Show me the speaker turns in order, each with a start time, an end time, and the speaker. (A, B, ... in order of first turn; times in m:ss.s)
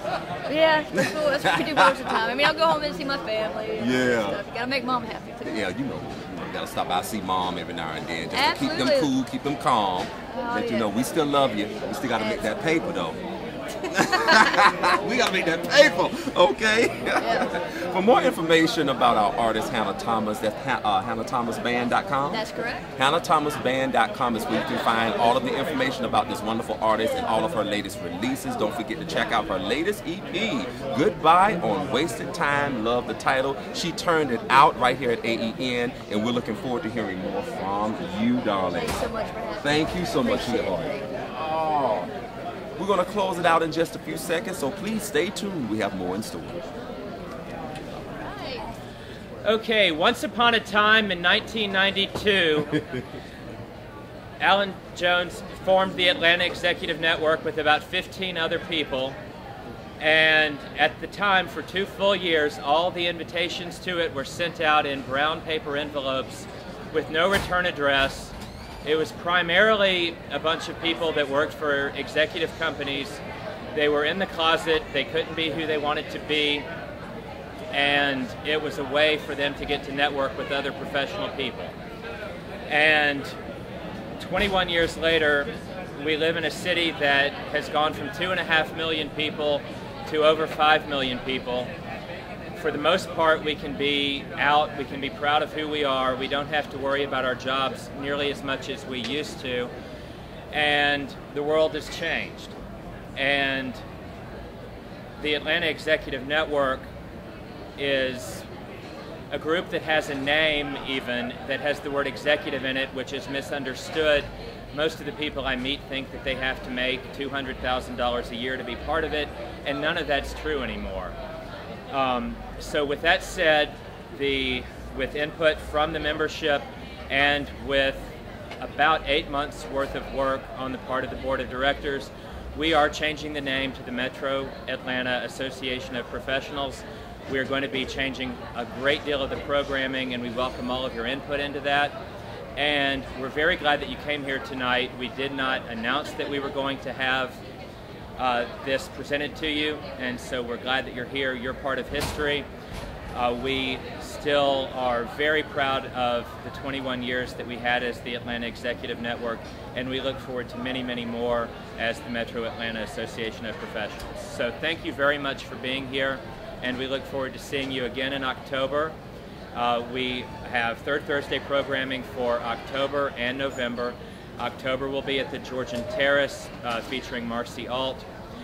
0:00.5-0:05.6 A
0:00.9-0:02.0 B
0:03.8-0:04.4 B
0:05.4-0:13.2 B
0:08.3-0:09.1 A
0:10.3-0:11.1 A
0:12.1-0:12.7 A
0:13.9-0:14.7 A
0:13.9-0:39.1 B
0:17.2-0:17.5 A
0:22.3-0:22.9 A
0:38.7-0:41.1 A
0:39.6-0:42.1 B
0:42.8-0:46.6 B
0:48.2-0:48.6 A
0:49.4-0:52.8 C
0:54.4-0:59.2 C
1:00.0-1:13.2 C
1:13.7-1:16.7 C
1:17.7-1:21.7 C
1:22.7-1:23.4 C
1:24.2-1:31.7 C
1:32.6-1:39.7 C
1:40.5-1:42.5 C
1:43.2-1:43.8 C
1:45.2-1:46.9 C
1:47.8-1:48.4 C
1:49.3-2:01.2 C
2:01.9-2:22.0 C
2:22.6-2:27.4 C
2:28.2-2:32.5 C
2:33.1-2:49.0 C
2:49.5-2:58.1 C